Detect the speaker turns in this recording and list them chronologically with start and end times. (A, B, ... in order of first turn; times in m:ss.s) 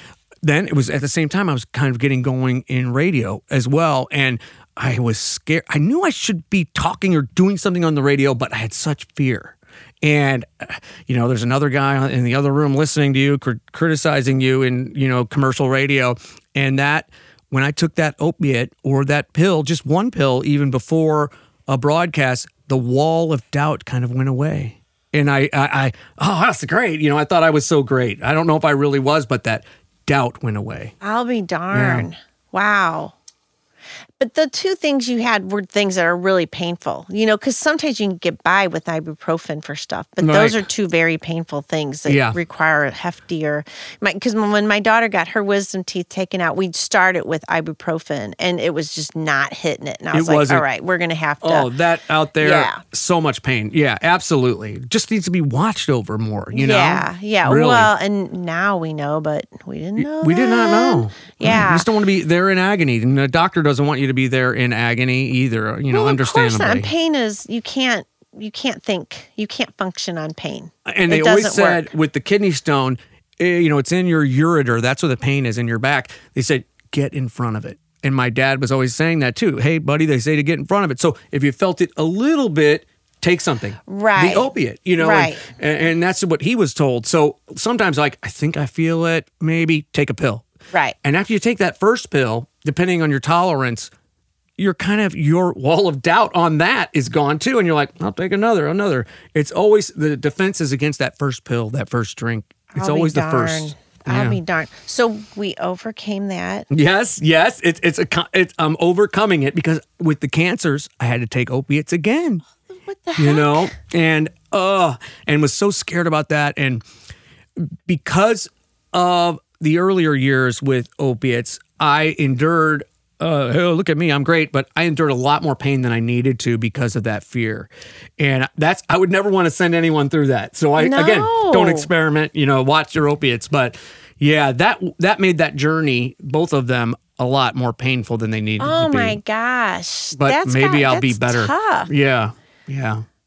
0:00.4-0:30.9 A
0:31.0-0:33.1 B
0:31.7-0:32.1 A
0:34.2-0:51.7 B
0:40.2-0:40.6 A
0:42.1-0:42.4 A
0:50.1-0:50.6 A
0:51.4-0:57.9 A
0:52.4-0:52.8 B
0:56.5-1:01.9 B
1:00.0-1:06.9 A
1:05.9-1:11.8 B
1:10.8-1:30.4 A
1:23.9-1:25.4 B
1:31.0-1:33.9 A
1:34.6-1:44.4 A
1:42.7-1:46.7 B
1:46.7-1:52.4 A
1:52.7-1:53.7 B
1:53.2-1:56.8 A
1:57.6-2:19.2 A
2:10.8-2:11.9 B
2:18.6-2:21.9 B
2:20.1-2:23.0 A